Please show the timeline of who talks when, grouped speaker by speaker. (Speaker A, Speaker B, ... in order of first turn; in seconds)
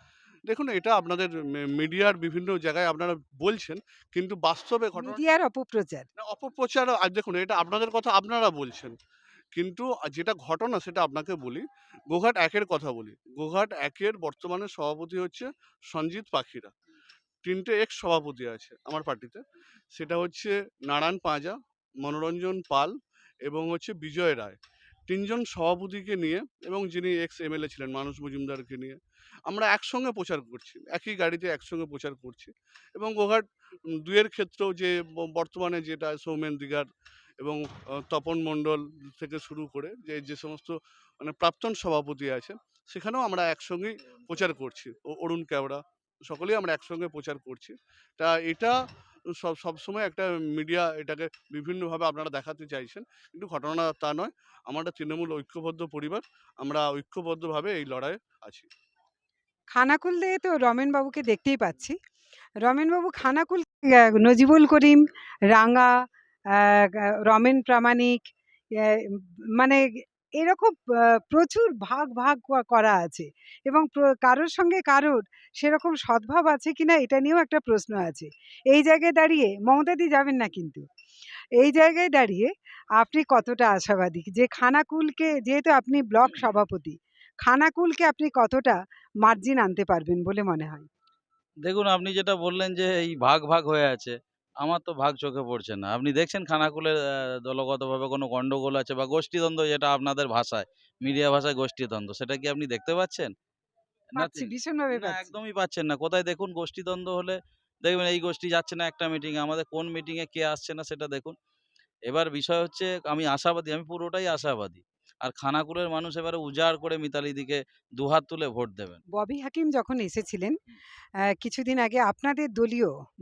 Speaker A: 0.5-5.2, 6.2-8.9, 9.6-16.7, 17.4-19.4, 19.9-22.9, 23.4-36.9, 37.4-48.8, 49.4-58.7
Speaker B: 5.0-6.1, 59.7-62.0, 62.6-65.9, 66.5-68.2, 68.8-69.8, 70.4-80.9, 81.6-90.9, 104.2-105.3, 119.2-120.5, 121.3-122.9
Speaker C: 91.6-103.3, 104.2-111.3, 112.1-119.0